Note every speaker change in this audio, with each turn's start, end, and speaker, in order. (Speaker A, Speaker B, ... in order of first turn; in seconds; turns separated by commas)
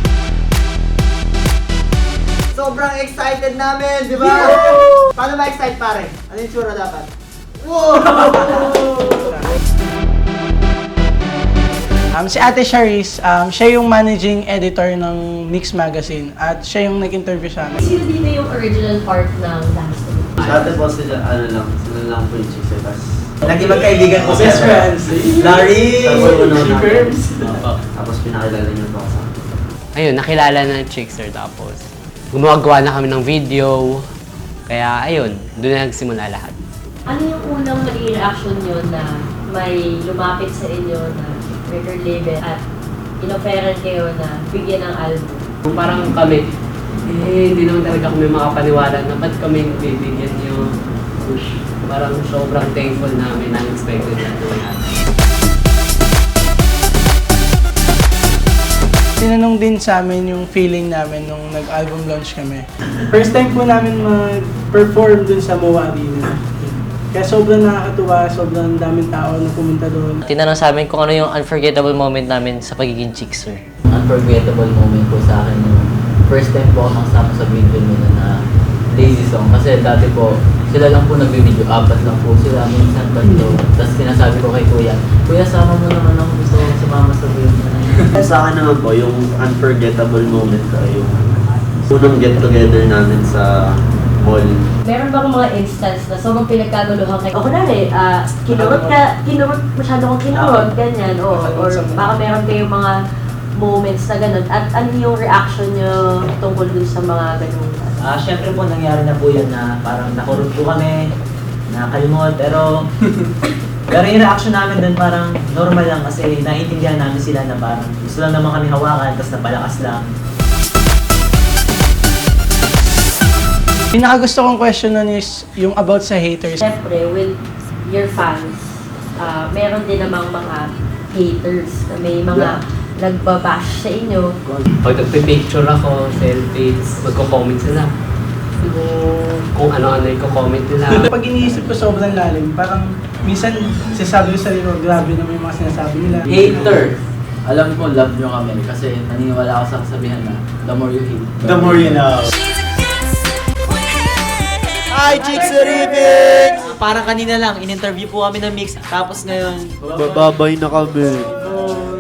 Speaker A: 2.5-3.7, Speaker B: 2.7-4.5, Speaker A: 4.2-4.5, Speaker A: 5.2-7.0, Speaker B: 5.3-7.0, Speaker B: 7.7-9.5, Speaker B: 12.1-17.8, Speaker C: 17.8-20.3, Speaker D: 20.4-20.7, Speaker E: 20.4-23.3, Speaker A: 23.4-26.4, Speaker E: 24.1-24.8, Speaker B: 24.3-25.5, Speaker E: 25.9-29.4, Speaker B: 26.2-27.4, Speaker D: 29.9-34.0, Speaker D: 34.7-36.5, Speaker C: 37.1-42.6, Speaker C: 43.2-45.5, Speaker D: 45.7-46.4, Speaker D: 47.0-50.6, Speaker D: 51.2-54.8, Speaker B: 59.2-70.2, Speaker F: 70.2-73.6, Speaker G: 73.9-78.3, Speaker G: 78.9-85.8, Speaker B: 85.8-87.8, Speaker E: 88.2-94.6, Speaker C: 94.8-102.9, Speaker B: 98.5-98.9, Speaker A: 100.3-100.6, Speaker B: 101.4-102.2, Speaker C: 103.6-108.0, Speaker A: 108.0-111.0, Speaker A: 111.7-112.7, Speaker A: 113.9-120.0, Speaker B: 123.9-126.6, Speaker C: 126.6-134.3, Speaker D: 134.8-137.9, Speaker D: 138.6-141.1, Speaker B: 141.1-146.8, Speaker G: 146.3-152.1, Speaker B: 151.4-152.0, Speaker A: 151.6-152.2, Speaker A: 154.9-159.7, Speaker E: 159.9-161.4